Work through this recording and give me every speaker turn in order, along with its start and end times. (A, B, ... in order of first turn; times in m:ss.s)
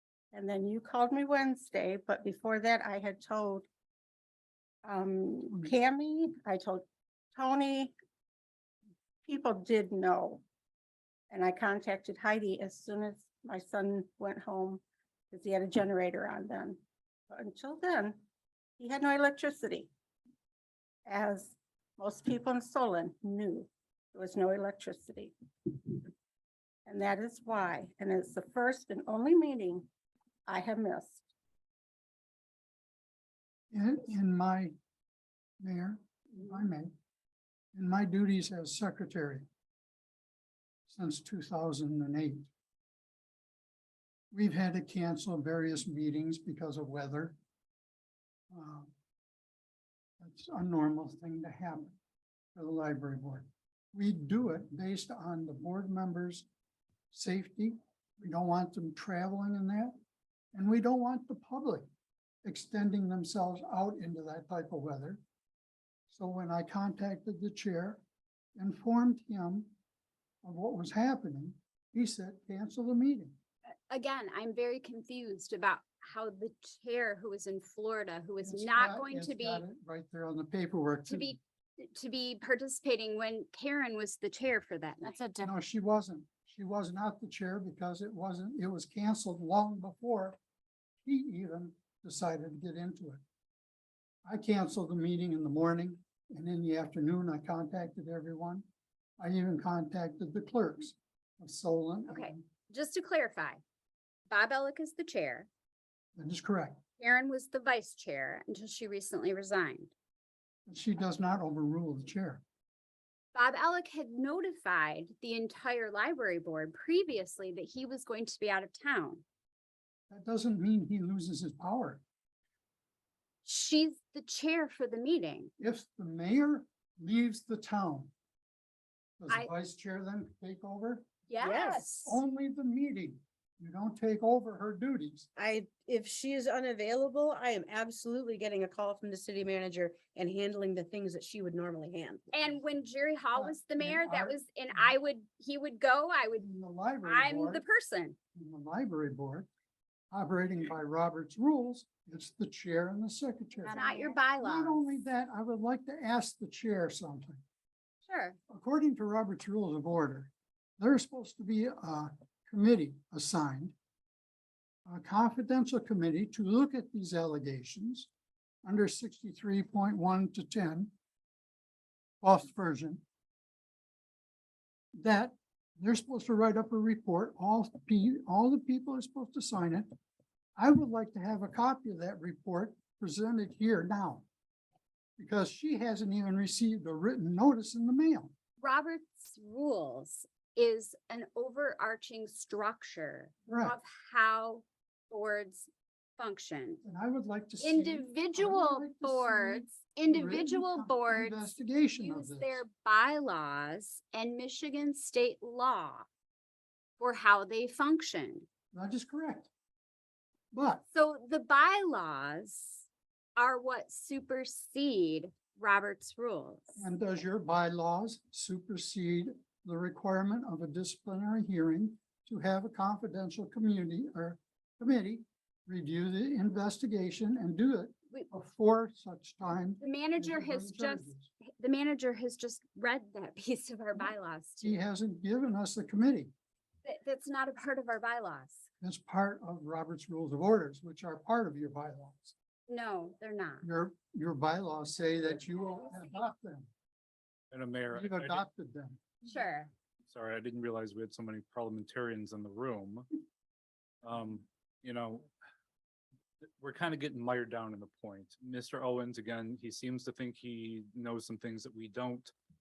0:00.3-0:03.7 A
0:04.8-0:06.8 A
0:07.3-0:07.9 A
0:09.2-0:10.4 A
0:11.3-0:18.2 A
0:18.8-0:19.9 A
0:21.0-0:26.0 A
0:26.8-0:29.9 A
0:30.5-0:31.2 A
0:33.7-0:34.7 B
0:35.6-0:36.9 B
0:37.7-0:39.4 B
0:40.9-0:42.5 B
0:44.3-0:47.4 B
0:48.5-0:48.9 B
0:50.2-0:52.0 B
0:52.5-0:56.4 B
0:57.1-0:59.9 B
1:00.5-1:01.8 B
1:02.4-1:05.2 B
1:06.1-1:08.0 B
1:08.6-1:09.7 B
1:10.4-1:13.4 B
1:13.9-1:19.6 C
1:18.4-1:21.4 B
1:21.1-1:25.3 C
1:25.4-1:30.4 B
1:31.0-1:33.2 B
1:34.2-1:38.6 B
1:39.2-1:42.4 B
1:42.1-1:43.6 C
1:44.3-1:45.5 C
1:46.2-1:46.8 B
1:47.0-1:49.9 C
1:50.7-1:52.4 B
1:53.3-1:59.2 C
2:00.1-2:02.0 B
2:03.4-2:05.5 C
2:05.6-2:08.1 B
2:09.2-2:11.1 B
2:11.3-2:12.2 C
2:11.4-2:11.8 D
2:11.8-2:15.3 B
2:15.4-2:22.3 D
2:22.3-2:26.4 C
2:23.3-2:25.0 B
2:26.4-2:27.6 B
2:27.0-2:28.2 C
2:28.3-2:29.5 B
2:30.1-2:37.4 B
2:33.6-2:35.0 C
2:38.1-2:38.4 C
2:38.5-2:43.7 B
2:44.8-2:48.1 B
2:48.6-2:50.9 B
2:52.2-2:53.0 B
2:54.9-2:59.9 B
3:00.6-3:04.2 B
3:05.2-3:08.3 B
3:08.6-3:16.8 C
3:13.4-3:13.8 B
3:16.8-3:22.6 B
3:17.6-3:26.1 C
3:27.0-3:28.5 C
3:28.7-3:29.5 B
3:30.5-3:30.8 B
3:30.9-3:36.8 C
3:36.8-3:51.3 B
3:49.8-3:54.8 C
3:54.6-3:56.3 B
3:56.8-3:58.7 C
3:58.8-4:02.3 B
4:02.7-4:03.7 C
4:03.6-4:06.7 B
4:05.6-4:06.1 C
4:07.5-4:08.4 E
4:07.9-4:09.2 B
4:09.2-4:09.7 C
4:10.1-4:13.0 E
4:14.0-4:15.3 E
4:16.6-4:22.3 E